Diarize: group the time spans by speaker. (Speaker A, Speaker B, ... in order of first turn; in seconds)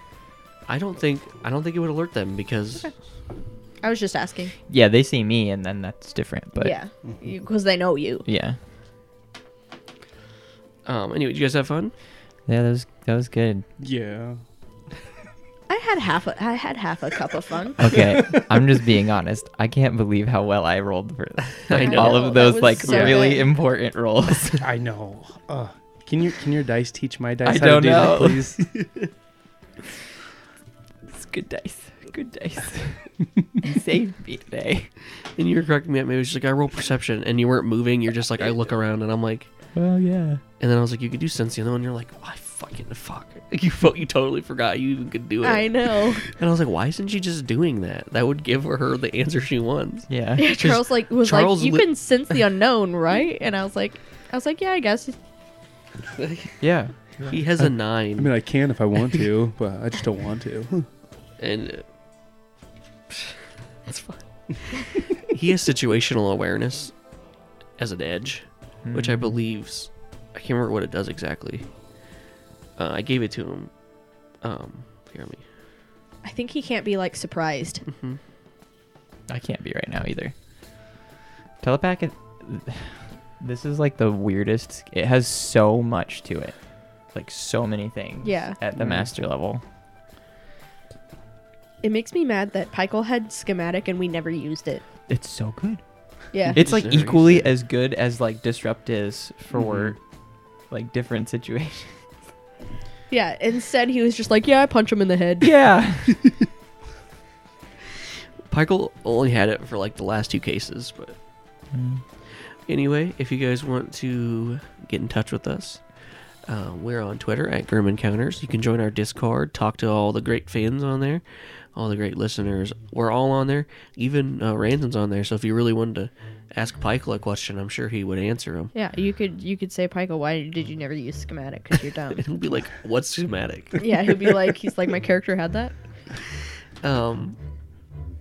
Speaker A: 0.7-2.9, 10.8-11.9, 21.7-23.2, 35.2-39.7, 40.6-51.9, 56.1-56.5, 57.2-58.3, 61.4-61.9, 63.1-67.1, 67.8-71.7, 72.8-73.7, 74.4-75.4, 77.9-78.2, 88.8-89.0, 96.5-97.5, 99.6-99.8, 108.5-111.2, 112.6-115.9, 116.4-128.7, 132.2-134.3, 136.8-137.4
Speaker B: 3.8-4.5, 6.5-8.2, 15.7-17.8, 21.7-23.5, 45.4-46.3, 50.4-55.2, 76.2-77.8, 88.2-88.6, 91.8-94.8, 96.3-96.6, 103.1-105.5, 128.7-132.3, 133.8-135.7
Speaker C: 4.7-6.8, 8.2-8.6, 12.4-13.7, 17.8-24.6, 27.4-28.7, 31.1-34.9, 39.7-40.4, 50.1-50.5, 56.6-57.7, 68.8-69.3, 79.3-80.3, 81.6-89.6, 95.1-95.8, 96.4-100.0, 100.7-102.0, 105.4-106.3, 111.7-112.0
Speaker D: 13.8-14.4, 24.6-28.6, 58.2-60.9